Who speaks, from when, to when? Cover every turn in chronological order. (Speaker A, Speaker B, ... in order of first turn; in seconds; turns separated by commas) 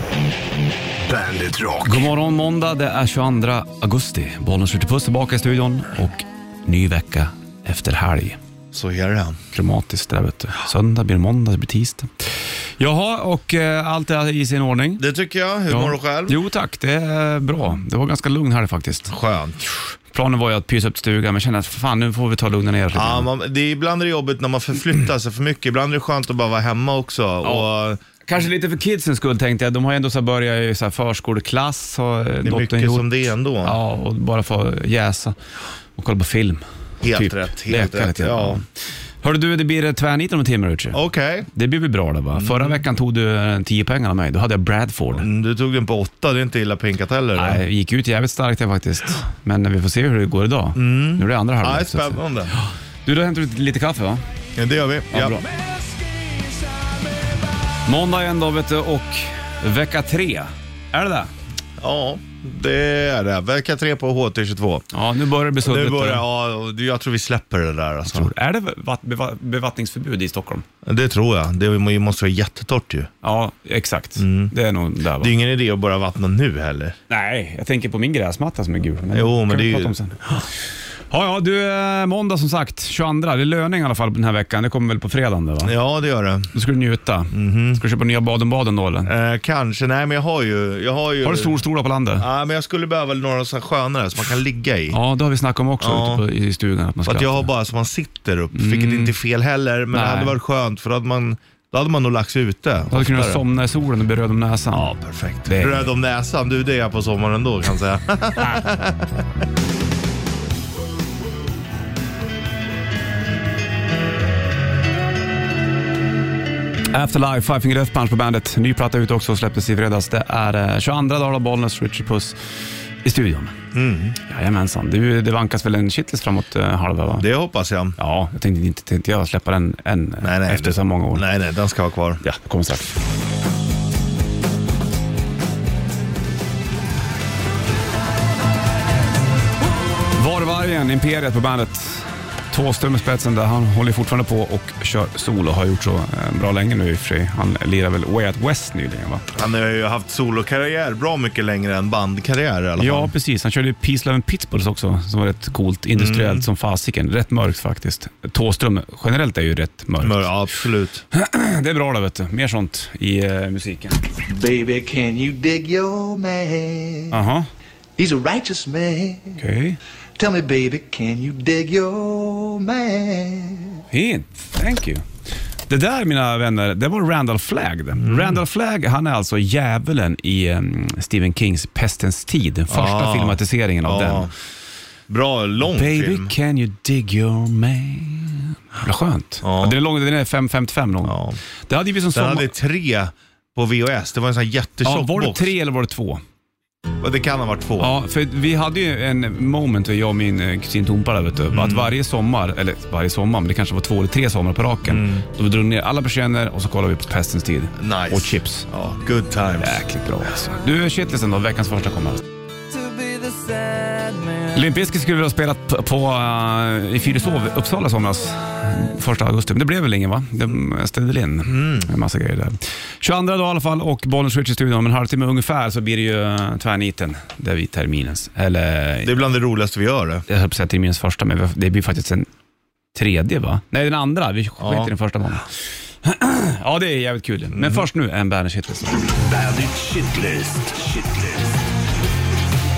Speaker A: 1.0-2.1, Speaker B: 1.8-8.4, Speaker C: 8.7-9.4, Speaker B: 9.5-15.0, Speaker C: 15.0-16.4, Speaker B: 15.7-19.1, Speaker C: 19.1-19.6, Speaker B: 20.1-23.3, Speaker C: 22.9-28.0, Speaker B: 27.4-27.7, Speaker B: 28.2-33.0, Speaker C: 32.4-33.8, Speaker B: 33.6-35.4, Speaker B: 36.0-41.0, Speaker C: 37.0-38.6, Speaker C: 40.9-41.5, Speaker B: 41.5-45.2, Speaker C: 42.3-42.8, Speaker C: 45.1-47.6, Speaker B: 47.3-54.2, Speaker C: 50.7-52.5, Speaker C: 54.5-55.4, Speaker B: 55.1-55.4, Speaker B: 57.8-61.3, Speaker C: 61.8-64.8, Speaker B: 64.9-66.2, Speaker C: 65.6-68.3, Speaker B: 68.1-70.6, Speaker C: 70.8-73.1, Speaker B: 73.2-75.3, Speaker C: 74.2-74.5, Speaker C: 75.2-77.0, Speaker B: 77.1-80.4, Speaker C: 79.1-80.4, Speaker B: 81.1-85.7, Speaker C: 85.6-86.5, Speaker B: 86.5-89.1, Speaker C: 87.3-87.8, Speaker C: 89.0-91.6, Speaker B: 91.2-92.2, Speaker C: 92.2-95.0, Speaker B: 94.9-97.5, Speaker C: 95.8-96.2, Speaker C: 97.0-103.4, Speaker B: 98.5-99.1, Speaker B: 99.9-100.4, Speaker B: 102.9-105.9, Speaker C: 104.7-109.3, Speaker B: 116.9-122.3, Speaker B: 123.0-123.6, Speaker C: 123.7-124.2, Speaker B: 124.2-127.2, Speaker C: 127.1-128.0, Speaker B: 128.0-131.2, Speaker C: 130.2-132.2, Speaker B: 132.2-132.9, Speaker B: 140.1-149.2, Speaker C: 149.3-153.1, Speaker B: 152.8-160.3, Speaker C: 155.9-156.4, Speaker C: 160.0-161.0, Speaker B: 161.1-164.0, Speaker D: 164.3-167.1, Speaker B: 167.1-167.5, Speaker D: 168.0-169.3, Speaker B: 169.4-169.8, Speaker D: 170.2-173.8, Speaker B: 173.9-175.0, Speaker B: 175.7-184.3, Speaker C: 178.0-178.4, Speaker C: 182.7-184.3, Speaker C: 185.1-186.3, Speaker B: 185.6-191.2, Speaker C: 189.4-189.8, Speaker C: 191.0-191.4, Speaker B: 191.7-192.5, Speaker C: 192.1-195.5, Speaker B: 194.8-196.2, Speaker C: 197.0-197.9, Speaker B: 197.8-208.7, Speaker C: 201.5-201.9, Speaker C: 204.9-205.2, Speaker C: 207.8-209.8, Speaker B: 209.6-212.2, Speaker D: 212.8-214.5, Speaker B: 214.5-229.1, Speaker C: 221.4-221.9, Speaker C: 229.0-230.2, Speaker B: 230.3-232.3, Speaker B: 232.9-238.9, Speaker C: 234.6-234.9, Speaker C: 237.5-237.8, Speaker A: 238.9-241.7